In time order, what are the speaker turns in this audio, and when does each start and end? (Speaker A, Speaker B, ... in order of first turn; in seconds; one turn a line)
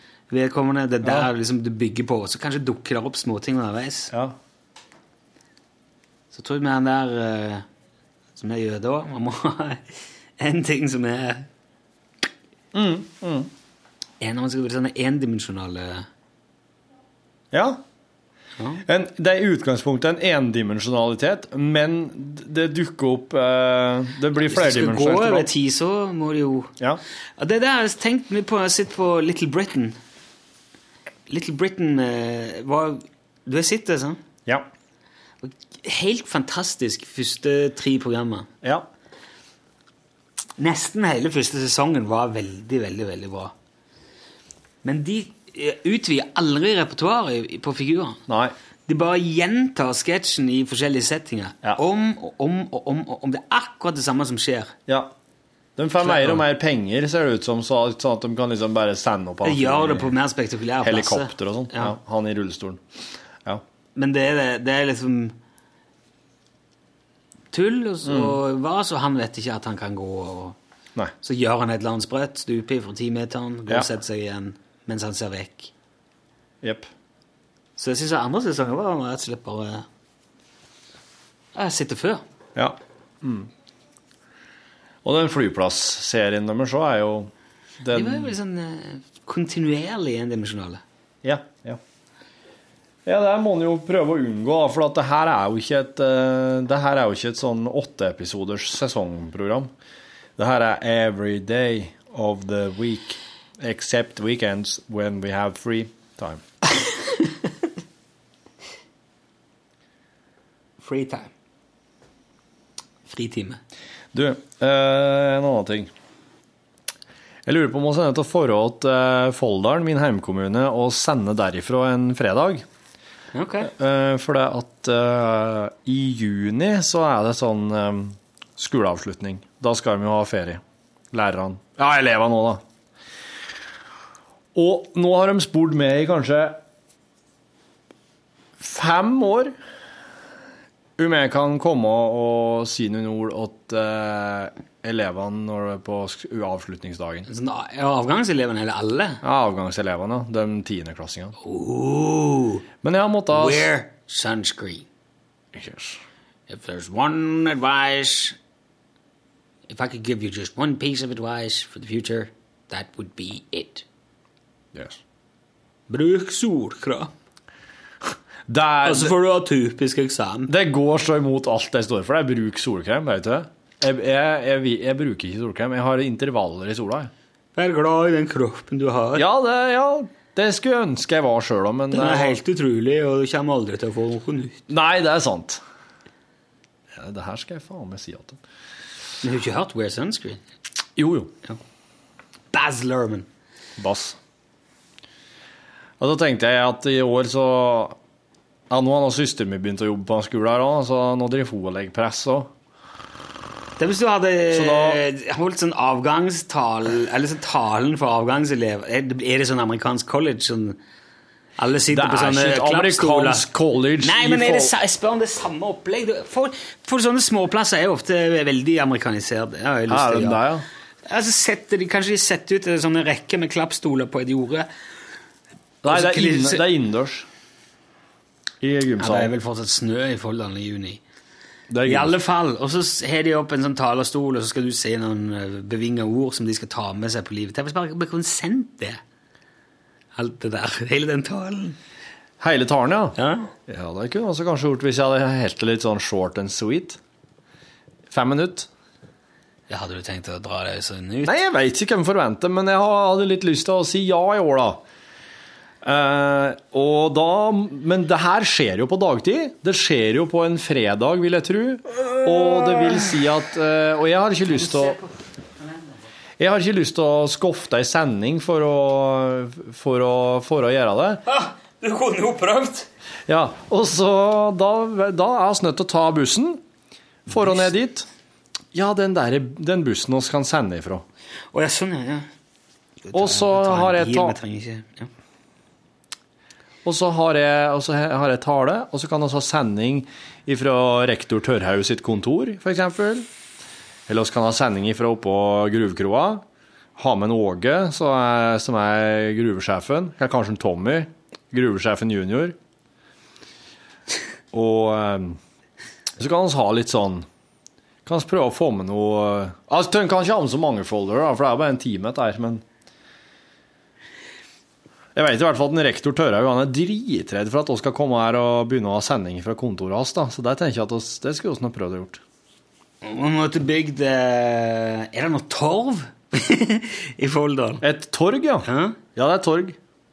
Speaker A: 0.3-4.1
Speaker B: 4.1-4.3
Speaker A: 6.3-7.6
Speaker A: 8.3-9.8
Speaker A: 10.4-11.5
Speaker B: 12.7-13.5
Speaker A: 14.2-16.1
Speaker B: 17.5-17.8
Speaker A: 18.6-18.8
Speaker B: 18.9-25.5
Speaker A: 24.4-26.7
Speaker A: 27.4-30.0
Speaker A: 31.3-34.2
Speaker A: 35.4-38.5
Speaker B: 38.6-38.9
Speaker A: 40.6-43.5
Speaker A: 44.8-48.2
Speaker B: 48.3-48.5
Speaker A: 48.9-54.7
Speaker B: 54.9-55.1
Speaker B: 55.8-60.2
Speaker A: 56.0-56.4
Speaker A: 59.4-61.9
Speaker B: 60.8-62.8
Speaker A: 63.9-65.3
Speaker A: 67.5-70.6
Speaker B: 68.0-68.4
Speaker A: 71.2-75.7
Speaker B: 76.6-76.9
Speaker A: 77.8-79.8
Speaker A: 81.5-82.2
Speaker B: 82.5-83.5
Speaker B: 85.0-88.3
Speaker A: 87.9-90.8
Speaker B: 91.2-91.8
Speaker B: 93.0-99.7
Speaker B: 100.4-106.4
Speaker A: 110.8-111.3
Speaker A: 113.0-113.6
Speaker B: 114.1-115.9
Speaker B: 117.5-122.6
Speaker A: 123.3-123.7
Speaker B: 123.6-132.6
Speaker B: 134.5-136.6
Speaker B: 138.6-139.5
Speaker B: 141.0-147.3
Speaker A: 147.3-149.2
Speaker B: 149.2-151.3
Speaker A: 151.4-152.7
Speaker B: 152.8-153.7
Speaker A: 153.3-154.9
Speaker B: 155.5-156.0
Speaker A: 156.5-158.4
Speaker A: 159.7-163.8
Speaker A: 165.9-167.1
Speaker B: 168.5-169.2
Speaker A: 168.8-170.5
Speaker B: 170.5-177.1
Speaker A: 177.6-179.2
Speaker B: 179.2-182.4
Speaker A: 181.9-184.7
Speaker B: 184.7-185.6
Speaker B: 186.9-188.4
Speaker A: 189.2-190.4
Speaker B: 191.0-191.3
Speaker A: 192.5-193.3
Speaker B: 193.8-194.2
Speaker B: 196.0-198.0
Speaker B: 198.7-202.5
Speaker A: 203.8-210.8
Speaker B: 204.5-205.0
Speaker A: 211.6-213.5
Speaker B: 211.9-214.7
Speaker A: 214.0-220.4
Speaker B: 219.9-220.6
Speaker A: 221.1-224.7
Speaker B: 225.8-227.3
Speaker A: 225.8-226.6
Speaker B: 228.6-229.3
Speaker A: 229.0-231.0
Speaker B: 231.7-232.1
Speaker A: 231.8-239.0
Speaker A: 240.1-241.8
Speaker B: 242.4-243.2
Speaker A: 243.2-243.5
Speaker B: 243.7-247.0
Speaker B: 248.1-248.7
Speaker A: 249.7-251.3
Speaker B: 251.2-254.8
Speaker B: 255.8-264.9
Speaker A: 262.6-262.9
Speaker A: 264.5-265.8
Speaker B: 266.4-271.2
Speaker A: 271.3-272.9
Speaker B: 273.3-276.6
Speaker B: 277.3-278.1
Speaker B: 278.7-281.0
Speaker A: 281.5-282.3
Speaker A: 283.0-285.1
Speaker B: 283.1-284.4
Speaker B: 286.8-293.3
Speaker B: 294.1-296.4
Speaker B: 297.0-302.6
Speaker B: 304.5-305.4
Speaker B: 306.2-307.3
Speaker B: 308.1-312.6
Speaker B: 315.1-322.2
Speaker A: 323.0-327.8
Speaker B: 327.8-329.8
Speaker A: 328.6-329.0